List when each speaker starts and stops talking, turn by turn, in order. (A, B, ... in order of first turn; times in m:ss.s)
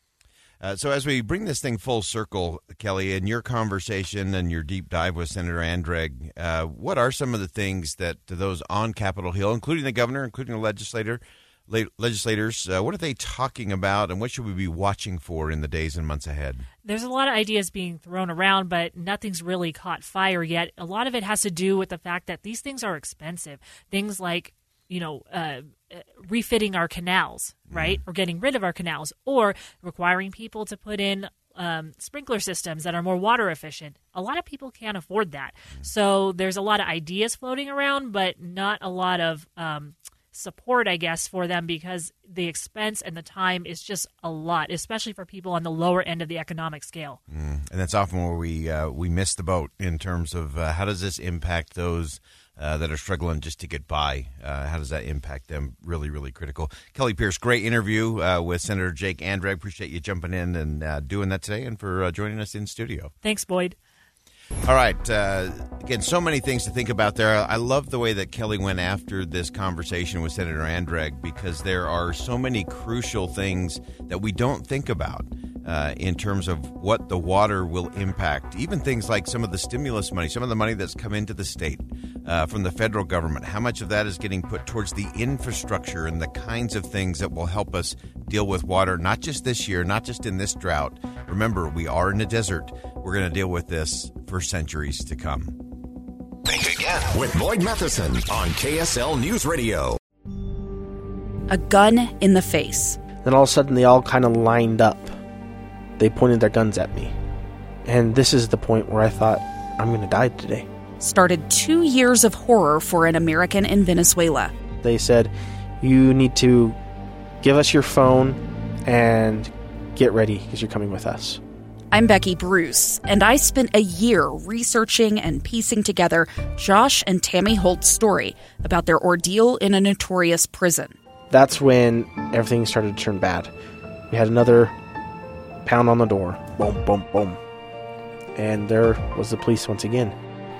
0:00.6-0:16.7 A
0:16.8-0:47.2 B
0:27.7-0:28.0 A
0:47.3-1:03.1 A
1:03.2-1:03.8 B
1:04.6-1:35.6 A
1:36.4-1:40.0 C
1:41.5-1:43.0 D
1:43.2-1:45.1 E
1:46.0-1:47.2 E
1:47.9-1:50.7 E
1:51.0-1:54.5 D
1:54.8-1:56.8 E
1:57.4-2:01.4 E
2:01.9-2:11.0 D
2:11.3-2:13.5 E
2:14.1-2:14.7 E
2:15.6-2:17.4 E
2:18.4-2:20.2 E